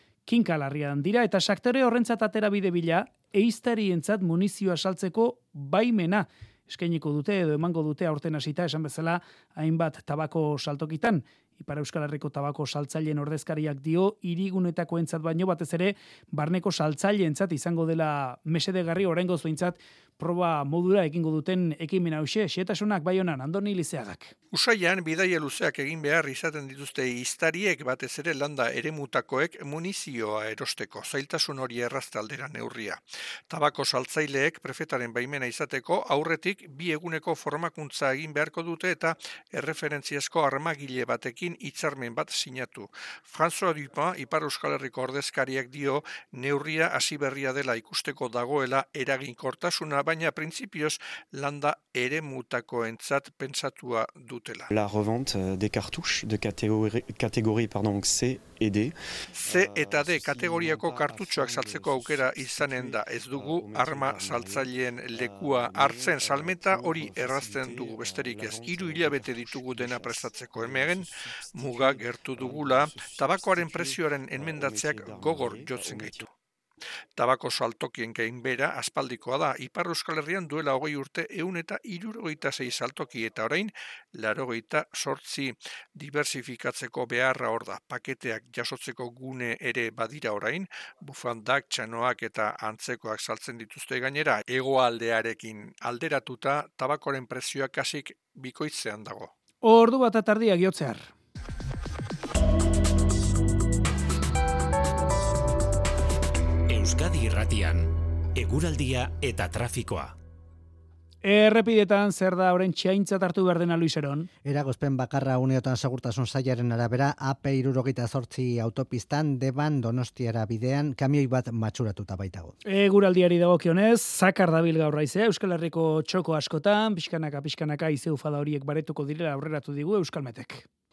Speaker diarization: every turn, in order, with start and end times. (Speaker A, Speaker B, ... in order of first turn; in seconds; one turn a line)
Speaker A: 0.2-24.3
Speaker B: 24.5-54.7
Speaker C: 54.7-76.3
Speaker B: 59.4-76.2
Speaker B: 77.2-99.3
Speaker A: 99.6-101.1
Speaker D: 106.7-110.1
Speaker A: 111.2-114.3
Speaker E: 114.4-122.5
Speaker A: 122.6-130.7